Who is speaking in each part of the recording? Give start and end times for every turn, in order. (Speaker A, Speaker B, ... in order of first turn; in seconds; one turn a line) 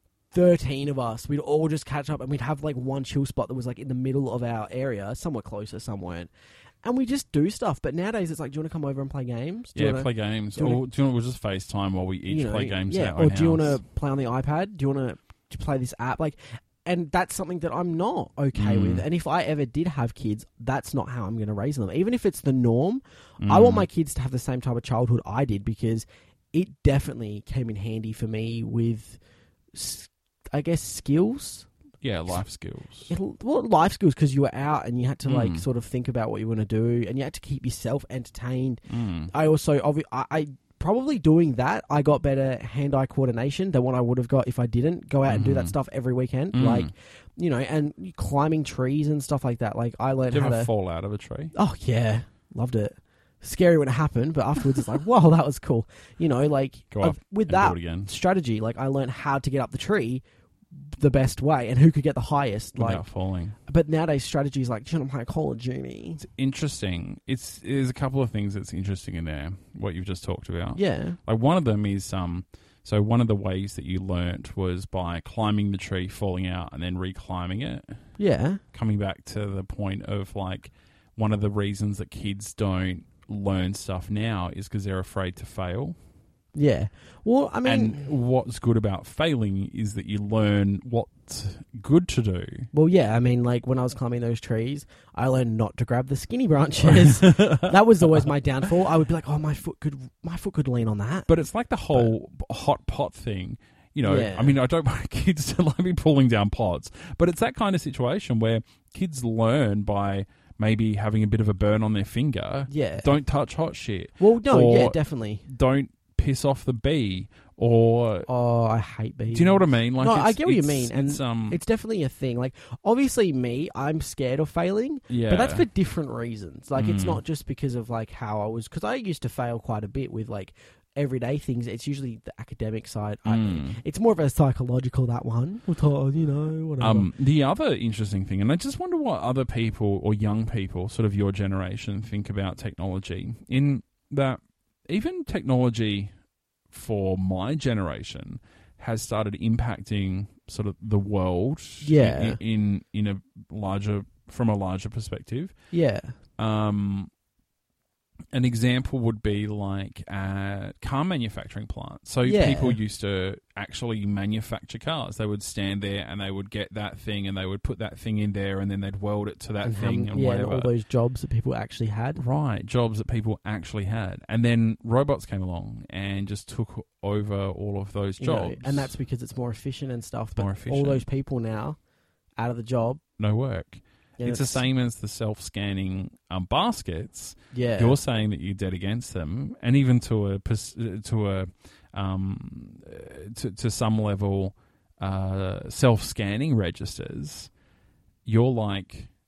Speaker A: 0.3-6.3
Speaker A: 6.8-10.8
Speaker B: 9.7-13.8
Speaker A: 12.3-29.2
Speaker B: 18.5-19.0
Speaker B: 23.4-23.9
Speaker A: 29.7-31.7
Speaker B: 32.0-33.1
Speaker A: 33.1-50.7
Speaker B: 35.2-35.6
Speaker B: 38.9-39.3
Speaker B: 45.3-45.7
Speaker B: 46.5-46.9
Speaker B: 50.3-51.5
Speaker A: 51.5-60.2
Speaker B: 56.9-58.1
Speaker A: 60.9-63.0
Speaker B: 62.8-63.5
Speaker A: 63.6-66.2
Speaker B: 66.2-78.0
Speaker A: 70.7-71.2
Speaker A: 78.2-78.6
Speaker B: 78.7-86.0
Speaker A: 86.5-88.0
Speaker B: 87.6-92.7
Speaker A: 92.7-101.3
Speaker B: 96.8-98.2
Speaker B: 101.3-118.3
Speaker A: 104.0-104.5
Speaker A: 112.7-113.1
Speaker A: 114.2-115.5
Speaker A: 118.3-137.1
Speaker B: 119.3-121.6
Speaker B: 125.1-125.7
Speaker B: 126.8-127.2
Speaker B: 133.2-133.8
Speaker B: 136.8-146.1
Speaker B: 146.7-155.5
Speaker A: 151.8-152.4
Speaker A: 155.7-156.2
Speaker B: 156.4-157.1
Speaker B: 158.3-170.7
Speaker A: 162.2-162.8
Speaker A: 169.6-172.2
Speaker B: 172.2-178.9
Speaker A: 178.2-181.8
Speaker B: 180.4-181.0
Speaker A: 182.4-183.0
Speaker B: 183.2-197.5
Speaker A: 184.2-184.6
Speaker A: 187.5-188.0
Speaker B: 198.2-199.1